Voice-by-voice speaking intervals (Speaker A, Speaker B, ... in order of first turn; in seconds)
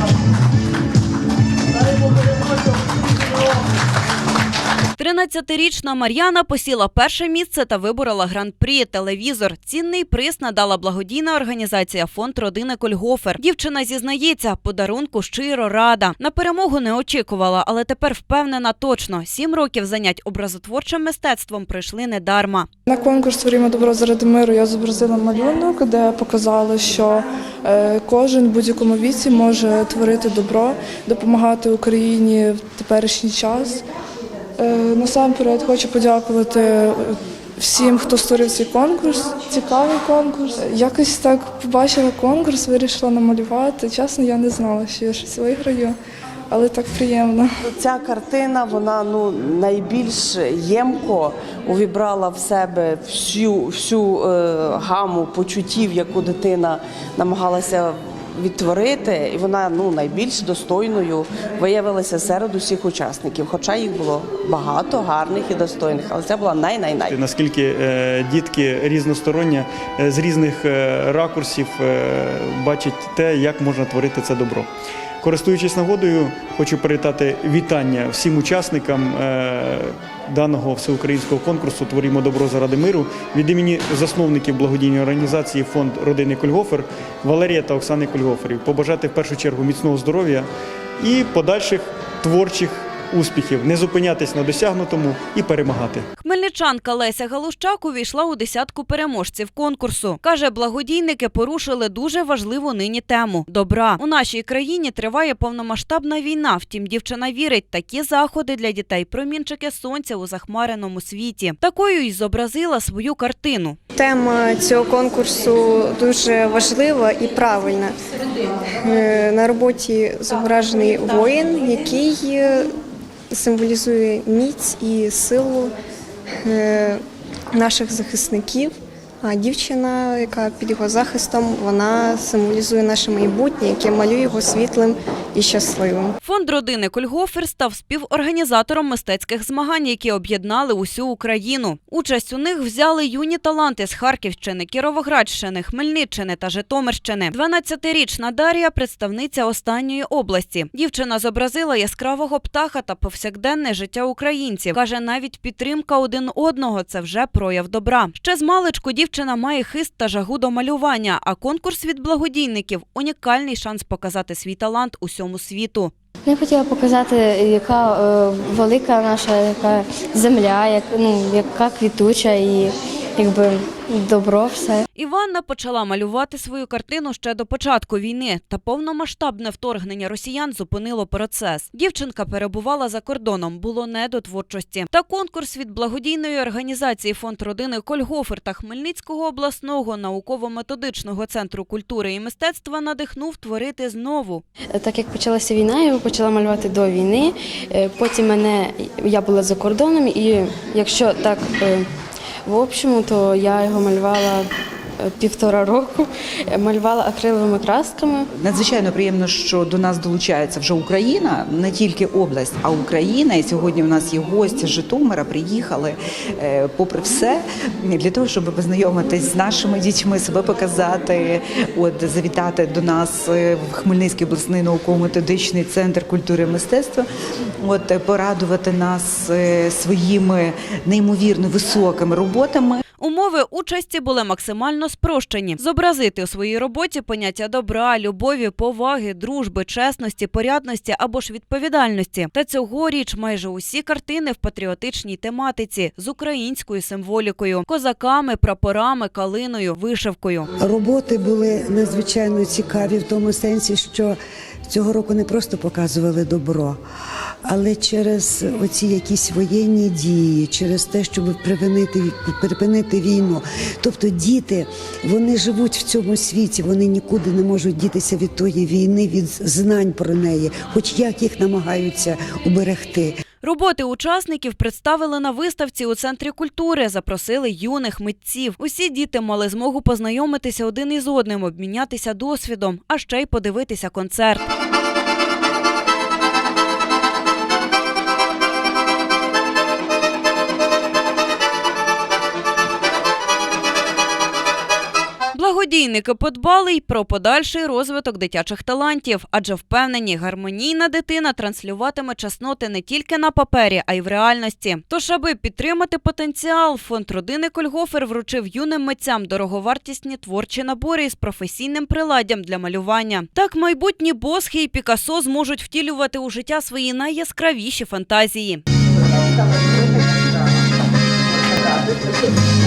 Speaker A: 5.0-22.7, 96.2-113.8, 136.2-165.9, 174.9-194.4, 233.0-250.5, 273.4-284.5, 295.3-318.6
Speaker B: 22.9-33.8, 34.6-46.0, 46.5-47.5
Speaker C: 47.6-67.2
Speaker D: 67.1-74.7, 75.2-90.5, 91.0-96.0
Speaker E: 114.0-117.9, 118.8-122.7, 123.3-125.7, 126.4-127.0, 127.5-136.1
Speaker F: 166.2-174.8, 194.7-201.9, 202.4-204.5, 205.0-208.3
Speaker G: 208.3-227.1, 227.6-232.8
Speaker H: 250.6-256.8, 257.4-273.1